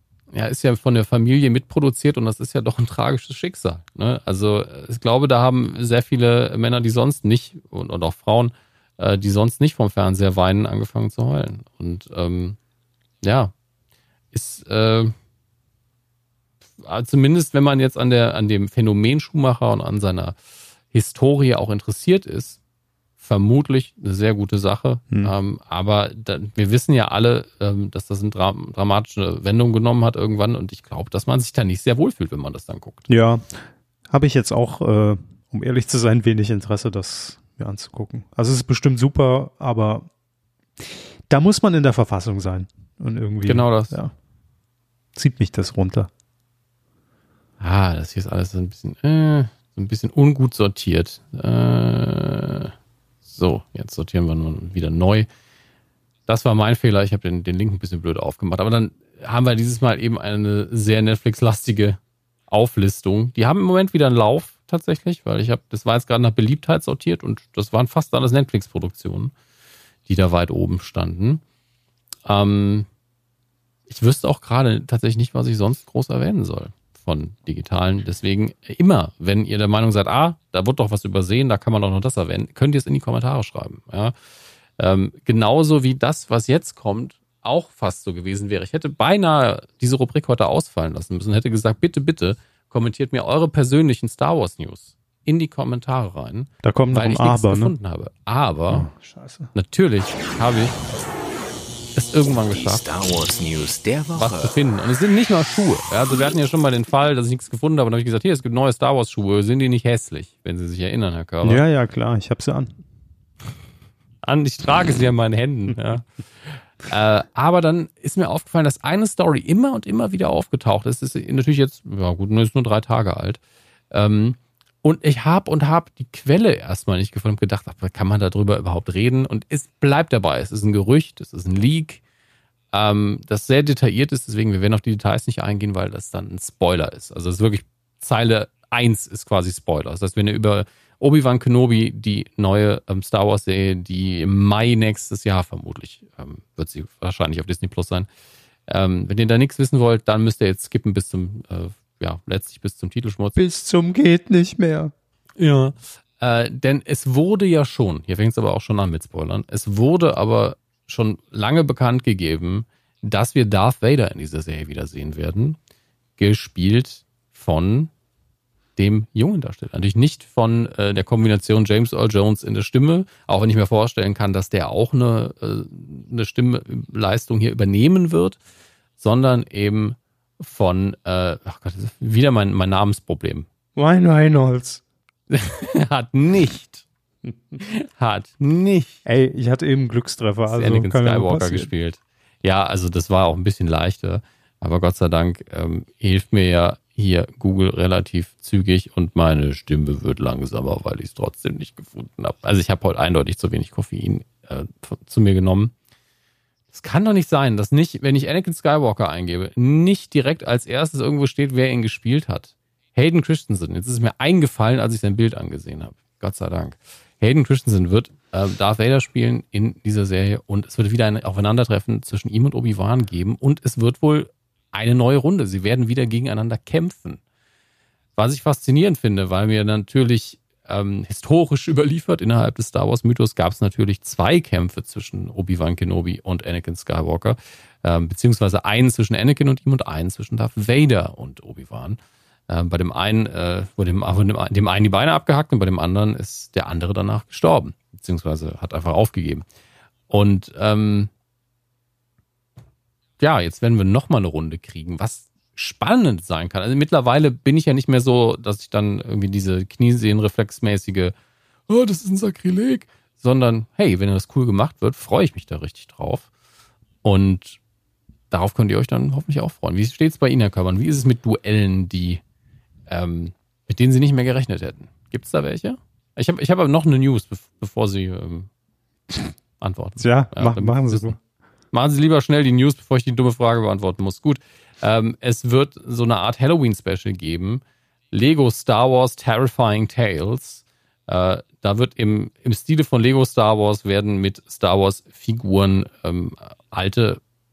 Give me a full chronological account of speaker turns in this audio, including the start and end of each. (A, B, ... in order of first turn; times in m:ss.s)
0:00.3-0:12.6 A
0:13.2-0:13.5 A
0:14.3-0:15.1 A
0:16.8-0:20.4 A
0:20.9-0:22.6 A
0:23.2-0:33.1 A
0:33.1-0:40.1 B
0:41.3-0:44.1 B
0:43.4-0:44.0 A
0:45.1-0:46.1 B
0:47.6-0:52.7 A
0:53.2-0:55.3 A
0:56.3-1:09.3 A
1:10.0-1:11.4 A
1:12.2-1:12.9 A
1:13.9-1:24.1 A
1:24.8-1:38.9 A
1:36.6-1:37.7 B
1:38.7-1:39.5 B
1:39.5-1:40.8 A
1:41.9-1:42.8 A
1:42.5-1:44.6 C
1:44.1-1:51.6 A
1:51.4-1:52.7 B
1:54.2-2:12.0 A
2:12.7-2:28.1 A
2:28.7-2:33.4 A
2:33.4-2:34.9 B
2:35.4-2:45.6 A
2:46.2-2:47.9 A
2:48.8-2:58.4 A
2:59.0-3:03.5 A
3:03.8-3:04.8 B
3:05.3-3:06.8 A
3:07.2-3:07.6 B
3:07.6-3:09.0 A
3:09.0-3:11.7 B
3:10.5-3:25.7 A
3:26.7-3:47.2 A
3:48.2-4:09.4 A
4:10.1-4:11.1 A
4:13.2-4:21.1 A
4:21.7-4:26.3 A
4:27.0-4:27.6 A
4:28.3-4:32.2 A
4:32.9-4:38.5 A
4:39.6-4:41.1 A
4:40.0-4:41.2 B
4:41.7-4:57.2 A